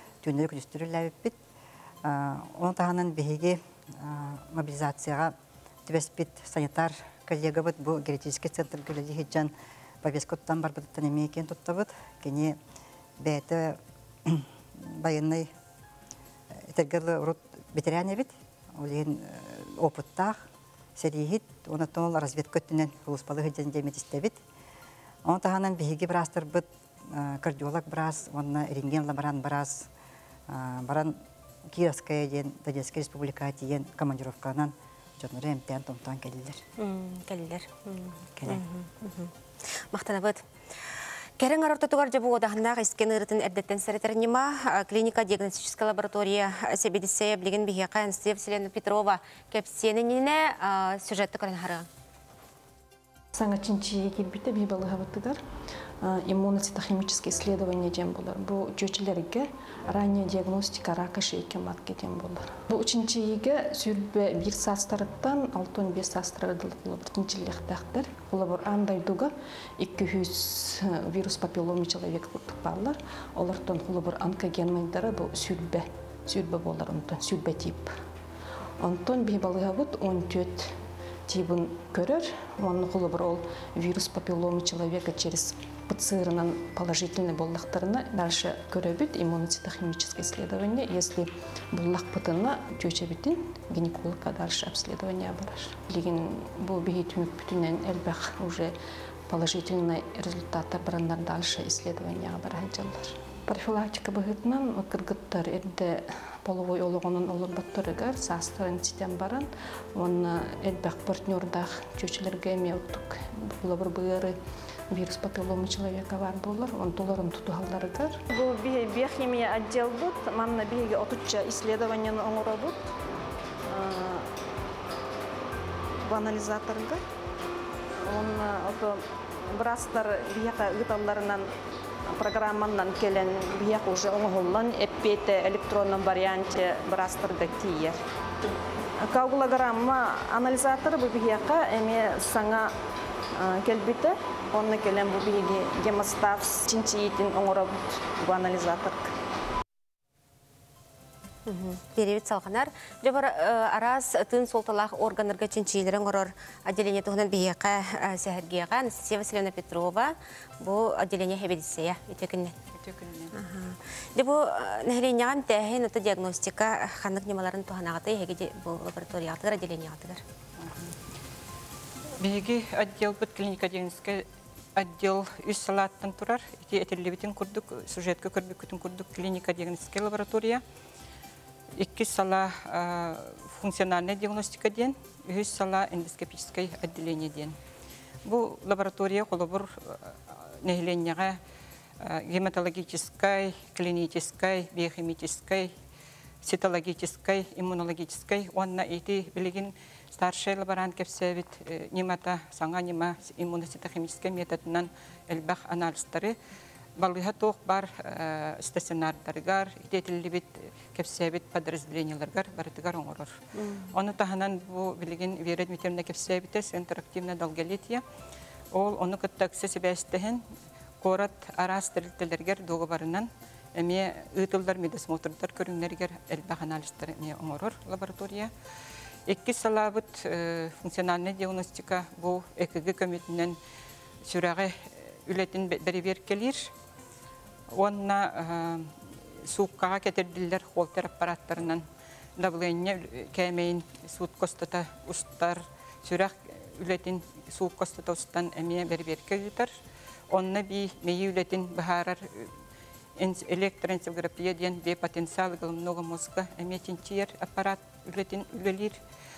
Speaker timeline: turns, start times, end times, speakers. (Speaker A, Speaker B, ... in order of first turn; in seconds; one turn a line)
Speaker A: 0.2-1.4
Speaker A: 2.0-5.3
Speaker A: 5.8-12.6
Speaker A: 13.2-15.5
Speaker A: 16.6-20.4
Speaker A: 20.9-24.4
Speaker A: 25.2-29.9
Speaker A: 30.5-36.6
Speaker B: 36.8-40.5
Speaker A: 38.4-38.6
Speaker B: 41.4-51.9
Speaker C: 53.3-55.4
Speaker C: 56.0-78.0
Speaker C: 78.8-98.8
Speaker C: 99.3-114.3
Speaker C: 114.9-118.2
Speaker D: 118.3-122.9
Speaker D: 123.7-124.3
Speaker D: 126.0-127.0
Speaker D: 128.0-131.5
Speaker D: 132.1-138.0
Speaker D: 139.0-142.7
Speaker D: 143.3-149.1
Speaker B: 151.4-162.6
Speaker E: 162.8-163.3
Speaker B: 163.3-170.2
Speaker E: 172.2-180.6
Speaker E: 181.8-187.6
Speaker E: 188.2-191.4
Speaker E: 192.0-195.7
Speaker E: 196.4-206.3
Speaker E: 207.0-213.4
Speaker B: 213.6-213.9
Speaker E: 213.9-218.0
Speaker E: 218.7-220.4
Speaker E: 221.0-228.5
Speaker E: 229.3-233.6
Speaker E: 234.2-236.7
Speaker E: 237.7-241.8
Speaker E: 242.4-252.5
Speaker E: 253.2-259.0